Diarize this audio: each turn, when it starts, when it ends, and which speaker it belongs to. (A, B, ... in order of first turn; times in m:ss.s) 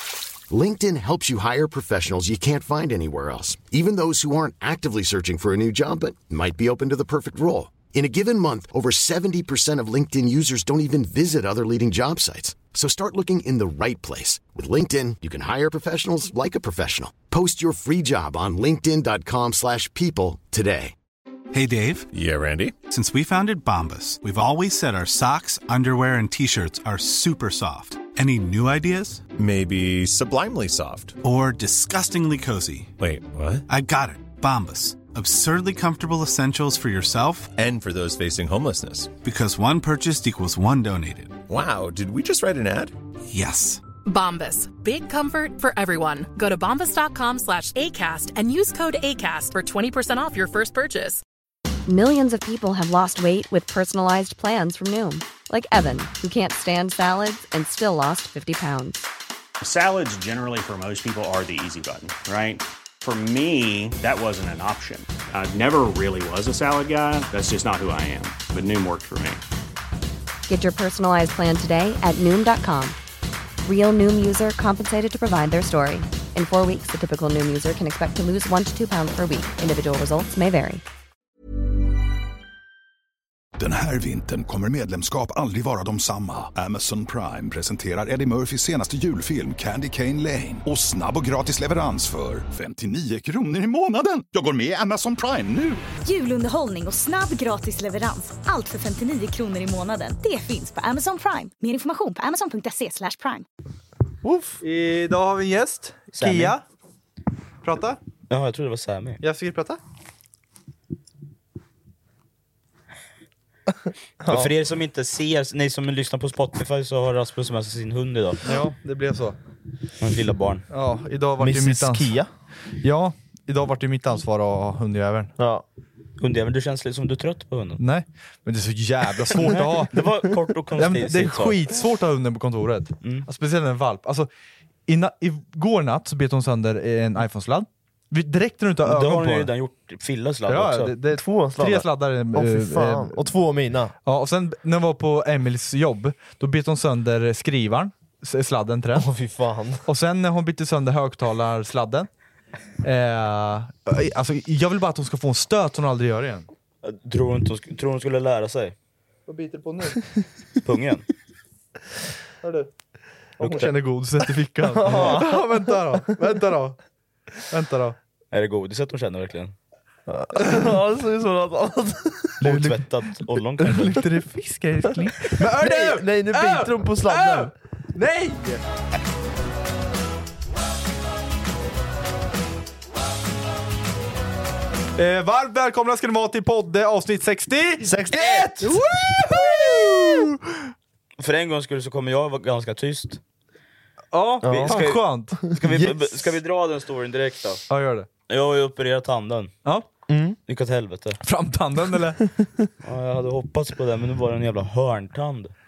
0:00.5-0:20.9 A
0:21.5-0:22.1 B
0:22.1-0:22.8 C
0:22.9-0:29.3 B
0:29.3-0:31.2 C
0:31.2-0:32.9 B
0:33.0-0:33.6 C
0:33.7-0:37.5 B
0:37.6-0:39.2 C
0:39.2-0:41.4 B
0:41.5-0:42.9 C
0:43.3-0:43.9 B
0:44.0-0:51.2 D
0:51.9-0:59.0 E
0:59.6-1:09.4 F
1:10.5-1:13.0 E
1:13.6-1:20.8 E
1:23.6-1:35.8 G
1:36.0-1:43.4 H
1:44.2-1:44.6 I
1:44.6-1:46.6 J
1:46.1-1:46.6 K
1:47.6-1:48.0 J
1:48.3-1:49.2 K
1:49.2-1:49.8 J
1:54.2-1:54.5 I
1:54.3-1:58.4 K
1:58.4-1:59.4 J
2:00.0-2:00.6 K
2:00.7-2:02.1 J
2:01.4-2:02.3 I
2:02.8-2:05.3 J
2:05.4-2:05.6 I
2:06.2-2:07.8 K
2:07.8-2:10.1 J
2:09.4-2:11.6 K
2:10.8-2:14.3 J
2:13.0-2:13.3 K
2:14.9-2:19.5 J
2:18.8-2:20.9 K
2:20.5-2:23.2 J
2:21.1-2:23.9 I
2:24.0-2:29.1 J
2:28.9-2:29.8 I
2:29.9-2:32.1 J
2:32.8-2:36.5 J
2:36.8-2:38.8 K
2:39.3-2:40.0 J
2:40.6-2:41.1 K
2:42.4-2:42.7 J
2:43.4-2:46.8 J
2:43.4-2:43.7 K
2:44.7-2:46.0 I
2:47.5-2:48.0 J
2:48.3-2:49.6 K
2:50.1-2:52.4 I
2:50.4-2:50.6 J
2:52.4-2:52.9 J
2:52.4-2:54.0 K
2:53.6-2:58.6 J
2:55.0-2:57.5 I
3:05.0-3:10.7 J
3:07.8-3:08.4 I
3:08.1-3:08.8 K
3:11.2-3:13.2 K
3:14.1-3:16.2 J
3:14.4-3:15.5 I
3:14.4-3:17.6 K
3:17.7-3:18.1 J
3:18.3-3:19.6 K
3:20.1-3:20.4 I
3:20.5-3:21.2 K
3:21.2-3:22.3 J
3:22.8-3:25.5 K